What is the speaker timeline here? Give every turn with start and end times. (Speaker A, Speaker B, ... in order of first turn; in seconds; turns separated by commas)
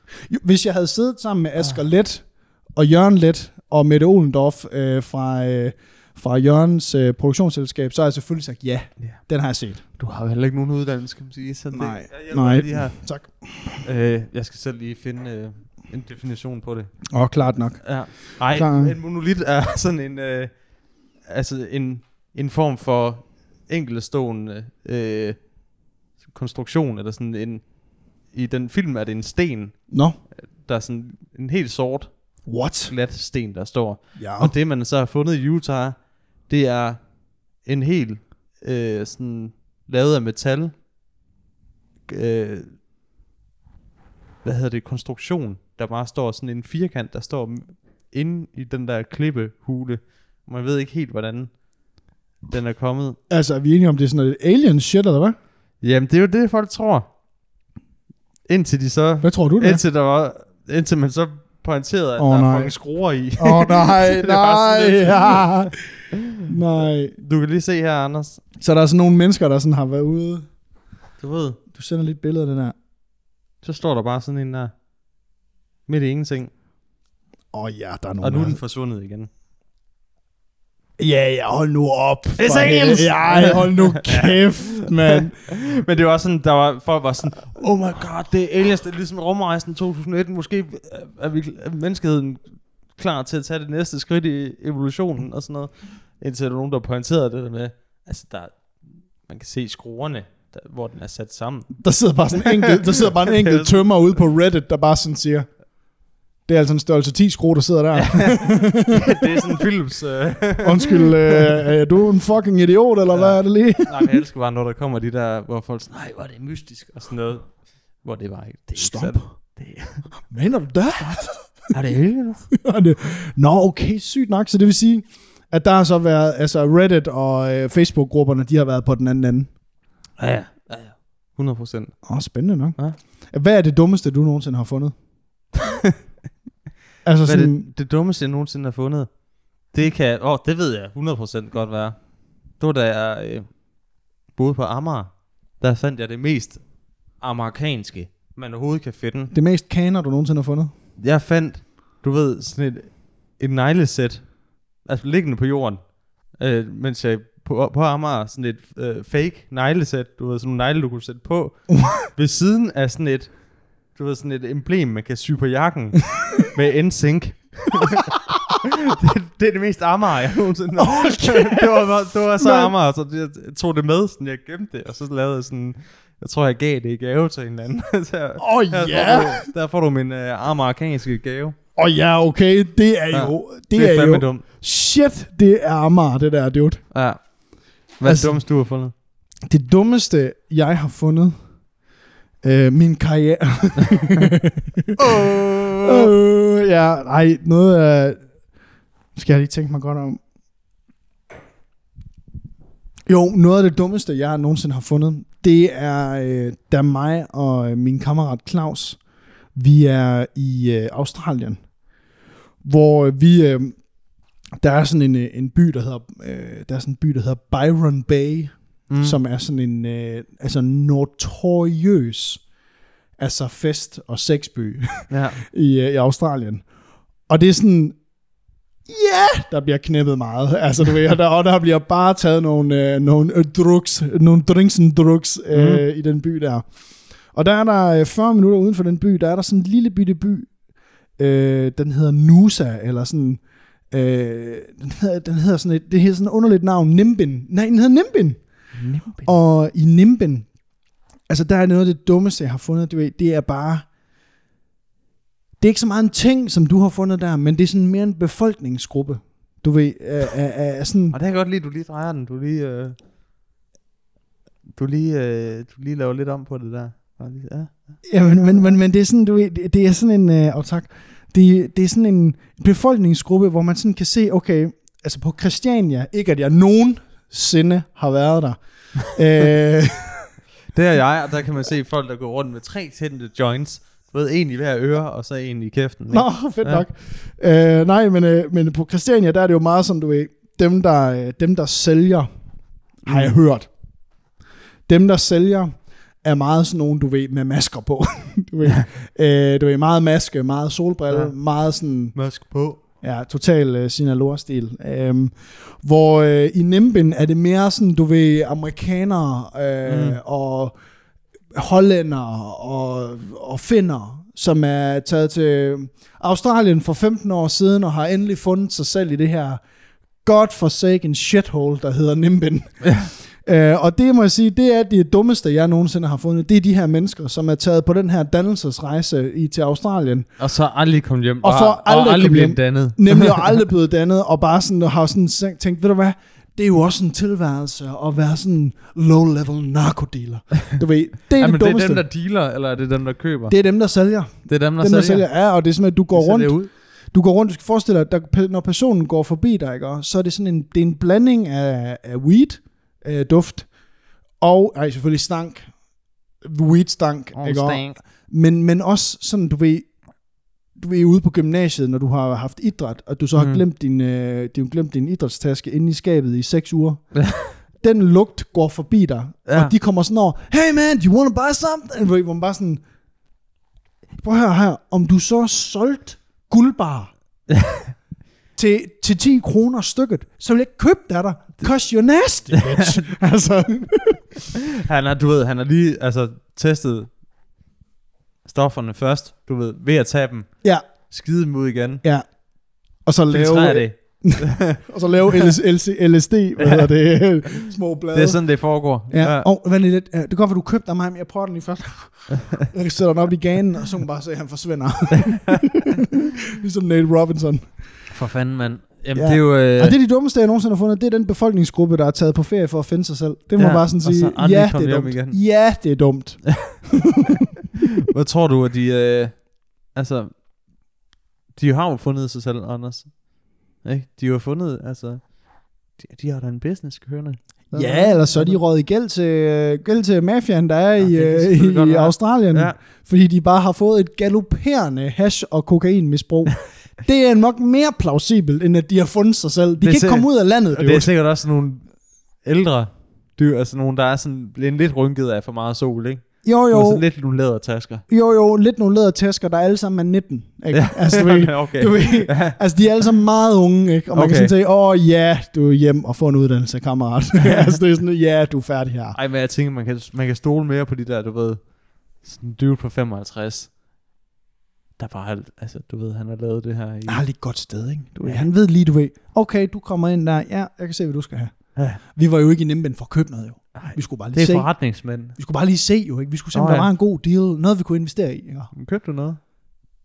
Speaker A: 0.2-9.8, Speaker B: 10.0-13.0, Speaker A: 11.7-13.8, Speaker B: 13.8-17.1, Speaker A: 17.1-18.9, Speaker B: 17.8-25.5, Speaker B: 26.2-40.7, Speaker A: 29.9-30.2, Speaker A: 32.4-32.9, Speaker A: 34.1-34.5, Speaker B: 42.1-42.8, Speaker B: 44.4-51.6, Speaker B: 52.4-53.2, Speaker A: 53.3-55.4, Speaker B: 55.8-57.1, Speaker B: 58.5-65.7, Speaker A: 59.2-59.8, Speaker A: 62.2-62.8, Speaker A: 63.4-67.2, Speaker B: 67.2-68.4, Speaker A: 68.6-70.5, Speaker B: 71.2-71.6, Speaker A: 71.7-72.7, Speaker B: 73.6-74.7, Speaker B: 75.8-76.5, Speaker A: 77.5-78.6, Speaker B: 78.2-79.3, Speaker A: 81.0-85.4, Speaker B: 82.4-103.8, Speaker A: 101.8-105.5, Speaker A: 106.5-109.0, Speaker B: 107.9-111.2, Speaker A: 110.6-114.2, Speaker B: 113.1-120.1, Speaker A: 118.8-119.3, Speaker A: 120.2-121.5, Speaker B: 121.7-122.5, Speaker A: 122.5-129.5, Speaker B: 130.2-132.1, Speaker A: 132.0-134.9, Speaker A: 137.0-137.7, Speaker B: 137.2-143.6, Speaker B: 144.3-149.3, Speaker A: 149.3-150.7, Speaker B: 151.0-181.6, Speaker A: 161.7-162.0, Speaker A: 170.8-172.7, Speaker A: 178.4-179.4, Speaker A: 181.8-186.8, Speaker B: 183.1-184.4, Speaker B: 186.9-187.2, Speaker B: 187.9-188.9, Speaker A: 188.0-188.4, Speaker A: 189.4-191.3, Speaker A: 192.4-198.2, Speaker B: 195.0-196.1, Speaker A: 199.1-200.2, Speaker A: 203.1-209.0, Speaker A: 209.5-211.6, Speaker A: 212.6-213.8, Speaker A: 214.6-222.4, Speaker B: 218.9-219.2, Speaker A: 223.2-226.7, Speaker B: 225.1-225.4, Speaker A: 227.3-228.0, Speaker A: 228.9-236.7, Speaker B: 235.5-235.8, Speaker A: 237.3-240.5, Speaker A: 241.2-248.4, Speaker B: 248.7-249.3, Speaker A: 249.1-250.5, Speaker A: 251.3-253.9, Speaker A: 255.6-261.1, Speaker B: 261.1-262.9, Speaker B: 264.7-268.0, Speaker A: 268.0-280.3, Speaker B: 280.7-286.8, Speaker A: 286.1-292.3, Speaker A: 293.0-293.7, Speaker B: 293.1-293.4, Speaker A: 294.9-295.7, Speaker A: 296.2-302.1, Speaker B: 302.1-302.8, Speaker A: 303.0-310.7, Speaker B: 309.8-310.2, Speaker A: 311.5-319.6, Speaker A: 320.2-330.3, Speaker B: 322.8-323.1, Speaker B: 330.4-333.6, Speaker A: 331.4-342.0, Speaker B: 341.4-343.6, Speaker A: 343.5-353.7, Speaker B: 344.5-345.3, Speaker B: 346.1-346.7, Speaker A: 354.4-355.7, Speaker A: 356.4-359.9, Speaker B: 357.3-358.0, Speaker A: 360.7-367.2, Speaker B: 363.4-363.6, Speaker A: 367.8-372.8, Speaker B: 369.5-369.7, Speaker A: 374.2-377.1, Speaker B: 377.5-377.9, Speaker A: 378.5-384.4, Speaker B: 382.5-383.0, Speaker B: 384.8-387.1, Speaker B: 388.4-392.0, Speaker A: 392.0-407.7, Speaker B: 393.3-394.8, Speaker B: 396.6-396.9, Speaker B: 398.1-399.5, Speaker B: 405.2-405.6, Speaker B: 408.1-409.9, Speaker A: 409.1-417.3, Speaker B: 413.6-415.4, Speaker B: 418.0-420.4, Speaker B: 421.5-428.6, Speaker A: 427.7-441.1, Speaker B: 431.0-432.8, Speaker B: 439.8-448.0, Speaker A: 446.4-447.0, Speaker A: 448.1-459.2, Speaker B: 450.7-452.6, Speaker B: 454.1-454.5, Speaker B: 457.4-457.8, Speaker B: 459.1-463.7, Speaker B: 465.0-467.2, Speaker A: 467.1-474.7, Speaker B: 468.2-468.5, Speaker B: 473.7-475.4, Speaker A: 475.3-478.7, Speaker B: 476.5-476.9, Speaker B: 478.7-479.4